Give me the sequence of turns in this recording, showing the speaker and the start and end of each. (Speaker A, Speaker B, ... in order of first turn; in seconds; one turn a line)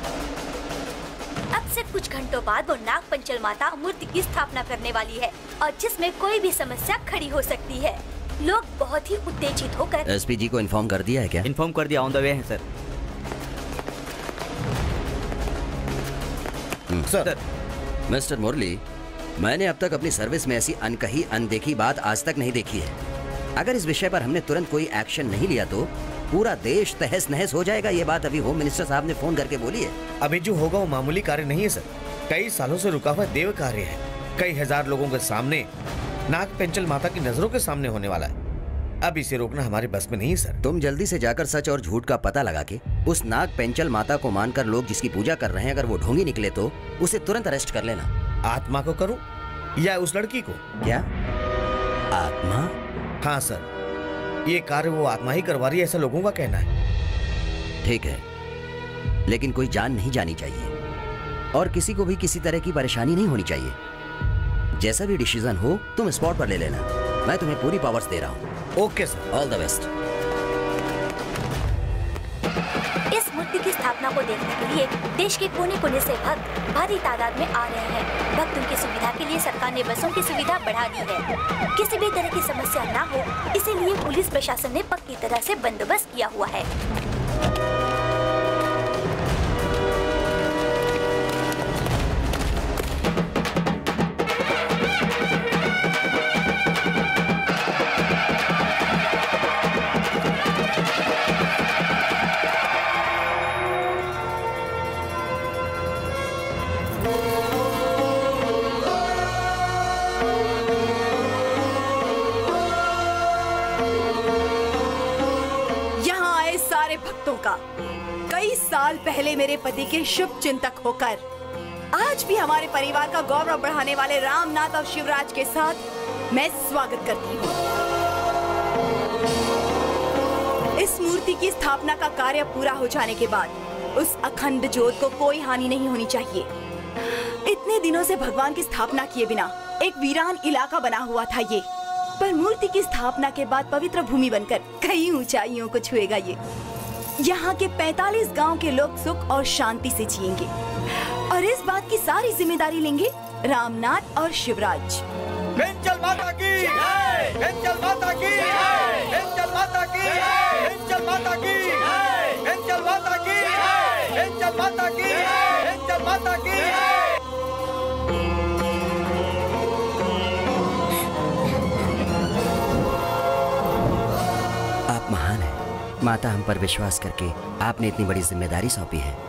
Speaker A: 1.5-10.1
Speaker B: 10.1-11.4
Speaker C: 11.4-12.6
Speaker B: 16.9-17.2
Speaker B: 18.1-18.8
Speaker B: 19.4-23.0
Speaker B: 23.6-30.0
Speaker D: 30.2-35.7
Speaker D: 36.3-38.4
Speaker D: 39.0-40.6
Speaker B: 40.6-48.1
Speaker D: 48.5-49.2
Speaker D: 49.8-50.8
Speaker B: 52.1-52.7
Speaker D: 53.2-53.7
Speaker D: 54.5-56.7
Speaker B: 57.8-58.2
Speaker B: 59.3-60.7
Speaker B: 61.5-63.8
Speaker B: 64.8-68.4
Speaker D: 68.8-69.3
Speaker B: 69.3-69.9
Speaker A: 73.1-86.7
Speaker E: 116.0-117.6
Speaker E: 118.3-121.2
Speaker E: 121.9-127.6
Speaker E: 130.8-136.5
Speaker E: 137.4-141.7
Speaker E: 142.2-146.4
Speaker E: 147.2-150.5
Speaker E: 151.3-155.0
Speaker C: 155.6-166.8
Speaker B: 174.9-179.2